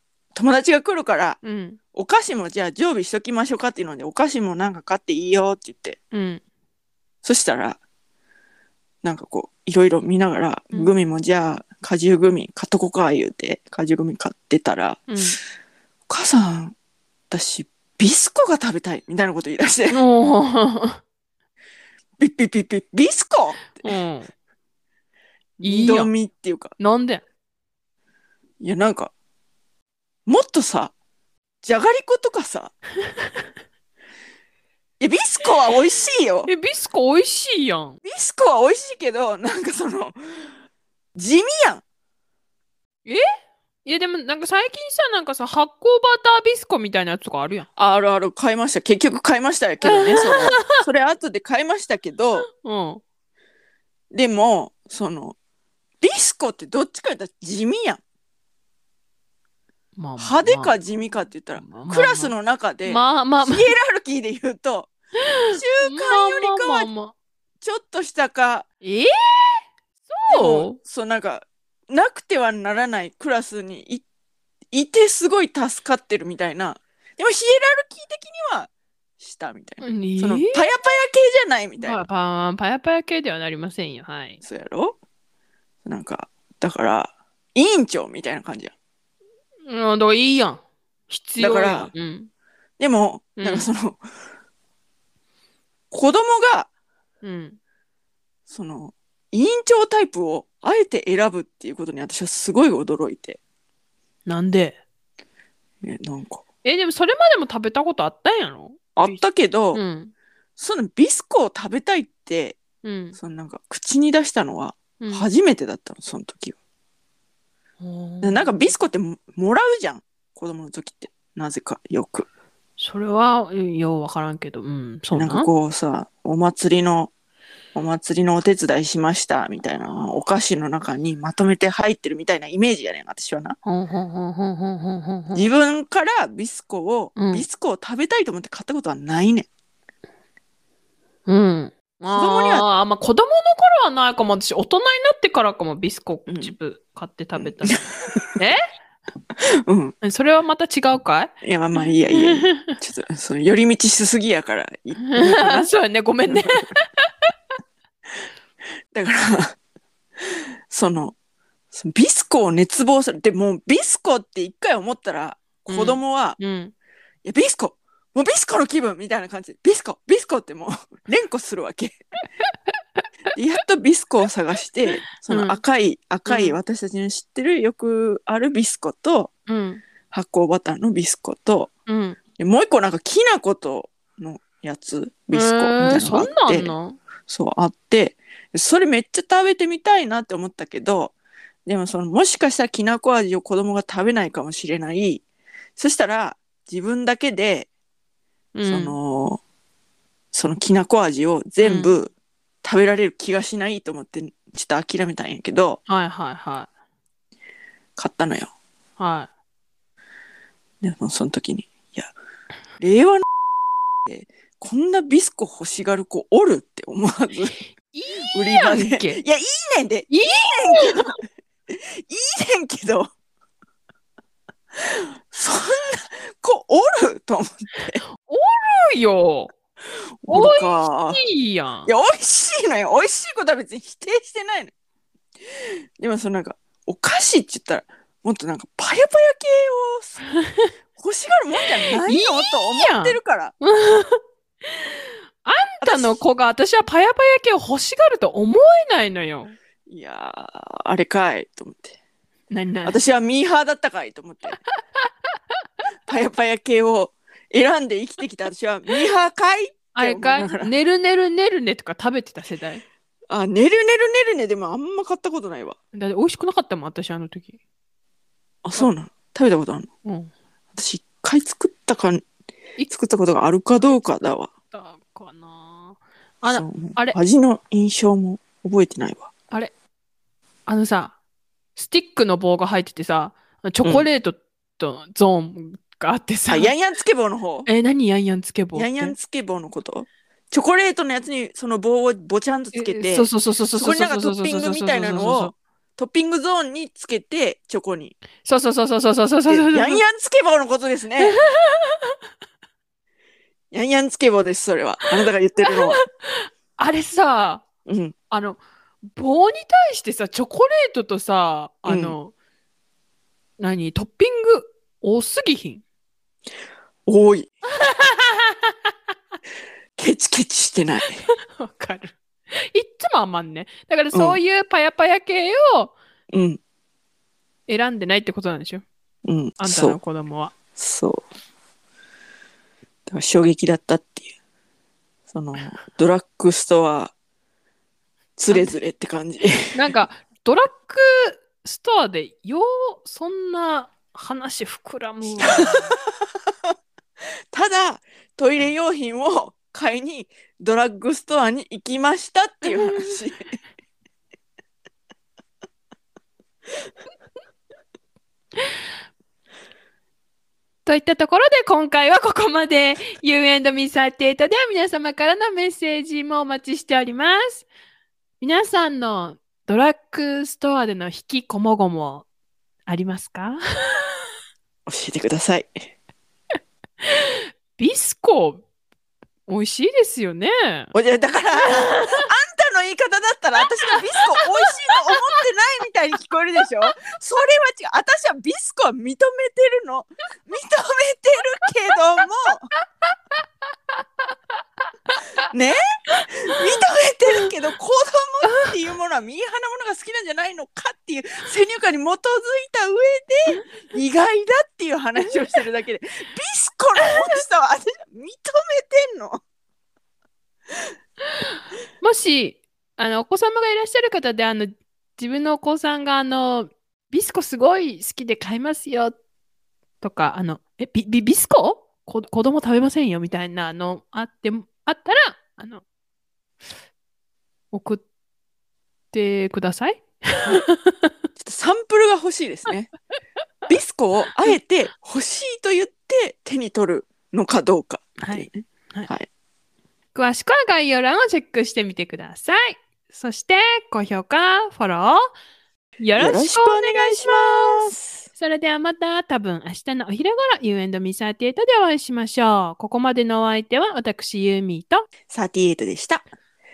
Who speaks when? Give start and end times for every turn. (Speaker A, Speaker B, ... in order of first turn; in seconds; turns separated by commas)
Speaker A: 0.3-1.4, Speaker B: 1.4-1.8, Speaker A: 1.9-6.0, Speaker B: 6.1-6.4, Speaker A: 7.2-7.8, Speaker A: 9.0-15.1, Speaker B: 15.1-15.4, Speaker A: 16.1-16.8, Speaker A: 17.3-20.0, Speaker B: 19.9-21.0, Speaker A: 22.2-23.9, Speaker B: 23.8-24.3, Speaker A: 25.6-26.7, Speaker B: 25.6-26.1, Speaker B: 26.8-27.2, Speaker A: 28.6-29.1, Speaker A: 30.3-30.9, Speaker A: 31.6-32.7, Speaker B: 33.2-33.4, Speaker A: 35.0-36.5, Speaker B: 36.5-38.0, Speaker A: 38.0-40.5, Speaker A: 41.2-41.8, Speaker B: 43.9-47.7, Speaker A: 47.8-52.5, Speaker B: 49.8-50.8, Speaker B: 52.5-53.0, Speaker A: 54.1-55.4, Speaker A: 56.0-58.0, Speaker B: 60.0-60.8, Speaker A: 60.2-64.9, Speaker B: 61.5-62.3, Speaker B: 62.8-63.7, Speaker B: 65.4-67.1, Speaker A: 65.5-66.9, Speaker A: 67.6-68.7, Speaker B: 68.8-70.8, Speaker A: 70.3-74.0, Speaker A: 74.7-82.0, Speaker B: 79.8-80.7, Speaker B: 81.8-84.4, Speaker A: 84.4-85.0, Speaker A: 85.8-88.7, Speaker B: 89.7-92.3, Speaker A: 91.4-91.9, Speaker A: 92.8-94.0, Speaker B: 93.4-93.7, Speaker A: 95.9-96.7, Speaker B: 97.2-97.6, Speaker A: 98.5-103.4, Speaker B: 104.3-104.8, Speaker A: 105.8-106.4, Speaker B: 106.6-110.1, Speaker A: 109.0-109.8, Speaker A: 110.6-112.6, Speaker B: 112.8-113.2, Speaker A: 113.2-116.6, Speaker B: 115.0-115.3, Speaker B: 117.8-118.7, Speaker A: 118.2-122.3, Speaker B: 122.8-125.5, Speaker A: 125.1-127.1, Speaker A: 127.8-133.6, Speaker B: 133.7-135.5, Speaker A: 135.3-139.5, Speaker B: 137.2-137.5, Speaker B: 141.3-147.8, Speaker A: 142.1-142.7, Speaker A: 146.3-146.6, Speaker A: 147.4-148.4, Speaker A: 149.7-149.9, Speaker B: 150.0-151.3, Speaker A: 151.4-155.7, Speaker B: 152.2-152.8, Speaker B: 155.0-157.3, Speaker A: 156.3-156.6, Speaker A: 158.9-159.6, Speaker A: 160.2-161.2, Speaker A: 161.7-166.4, Speaker B: 165.7-166.7, Speaker A: 167.2-172.0, Speaker A: 173.3-179.3, Speaker B: 175.2-175.6, Speaker B: 176.3-176.6, Speaker B: 179.5-179.8, Speaker A: 180.1-181.7, Speaker B: 181.9-182.2, Speaker A: 182.4-186.8, Speaker B: 185.3-187.0, Speaker A: 187.3-191.1, Speaker A: 191.7-195.2, Speaker A: 195.8-197.7, Speaker B: 198.5-199.0, Speaker A: 198.7-199.4, Speaker A: 200.3-202.1, Speaker B: 201.6-201.9, Speaker A: 202.6-205.8, Speaker B: 205.9-206.7, Speaker A: 208.0-208.5, Speaker B: 209.0-209.3, Speaker A: 210.8-212.1, Speaker A: 212.8-213.2, Speaker A: 214.1-217.6, Speaker B: 217.7-219.2, Speaker A: 218.2-221.2, Speaker B: 220.1-221.1, Speaker A: 221.7-223.1, Speaker A: 224.8-228.0, Speaker B: 228.2-229.5, Speaker A: 230.2-231.2, Speaker B: 230.3-231.9, Speaker A: 231.9-234.7, Speaker A: 235.5-240.3, Speaker A: 241.0-243.5, Speaker B: 242.0-244.2, Speaker B: 245.4-249.6, Speaker A: 245.8-246.2, Speaker A: 249.9-252.0, Speaker B: 252.5-253.0, Speaker A: 252.8-254.6, Speaker A: 256.1-260.7, Speaker B: 259.9-262.8, Speaker A: 263.3-265.8, Speaker B: 265.9-267.6, Speaker A: 268.6-269.9, Speaker B: 270.1-270.3, Speaker A: 270.7-272.2, Speaker A: 272.9-274.5, Speaker B: 274.7-277.2, Speaker A: 276.4-279.3, Speaker B: 280.7-281.2, Speaker B: 281.8-286.7, Speaker A: 286.5-287.7, Speaker B: 287.7-289.2, Speaker A: 288.8-298.2, Speaker B: 292.7-295.5, Speaker B: 298.4-300.0, Speaker A: 299.5-301.4, Speaker B: 301.2-302.2, Speaker A: 303.7-306.0, Speaker B: 305.6-307.6, Speaker A: 307.9-308.1, Speaker B: 308.3-308.6, Speaker B: 309.1-312.3, Speaker A: 311.9-312.2, Speaker B: 313.6-315.8, Speaker A: 317.1-317.5, Speaker B: 317.8-318.7, Speaker A: 320.0-321.2, Speaker B: 321.2-322.2, Speaker B: 322.7-325.9, Speaker A: 324.1-324.4, Speaker A: 326.3-326.6, Speaker B: 327.7-328.8, Speaker A: 329.3-330.0, Speaker B: 329.6-330.5, Speaker A: 330.8-331.3, Speaker A: 333.1-334.3, Speaker A: 335.3-337.1, Speaker A: 338.4-339.7, Speaker B: 339.7-345.9, Speaker A: 345.5-345.9, Speaker A: 347.5-353.5, Speaker B: 352.6-353.0, Speaker B: 360.9-367.7, Speaker B: 368.4-372.3, Speaker B: 372.9-374.1, Speaker A: 374.9-375.7, Speaker B: 377.1-378.6, Speaker B: 379.5-380.9, Speaker A: 380.9-392.7, Speaker B: 381.6-382.3, Speaker A: 395.5-409.4, Speaker B: 412.0-419.2, Speaker B: 420.0-425.8, Speaker B: 427.7-428.1, Speaker B: 429.1-431.1, Speaker A: 431.4-432.9, Speaker A: 433.7-439.3, Speaker B: 438.2-439.1, Speaker B: 440.1-445.2, Speaker B: 446.0-455.1, Speaker A: 446.2-448.3, Speaker A: 455.3-456.2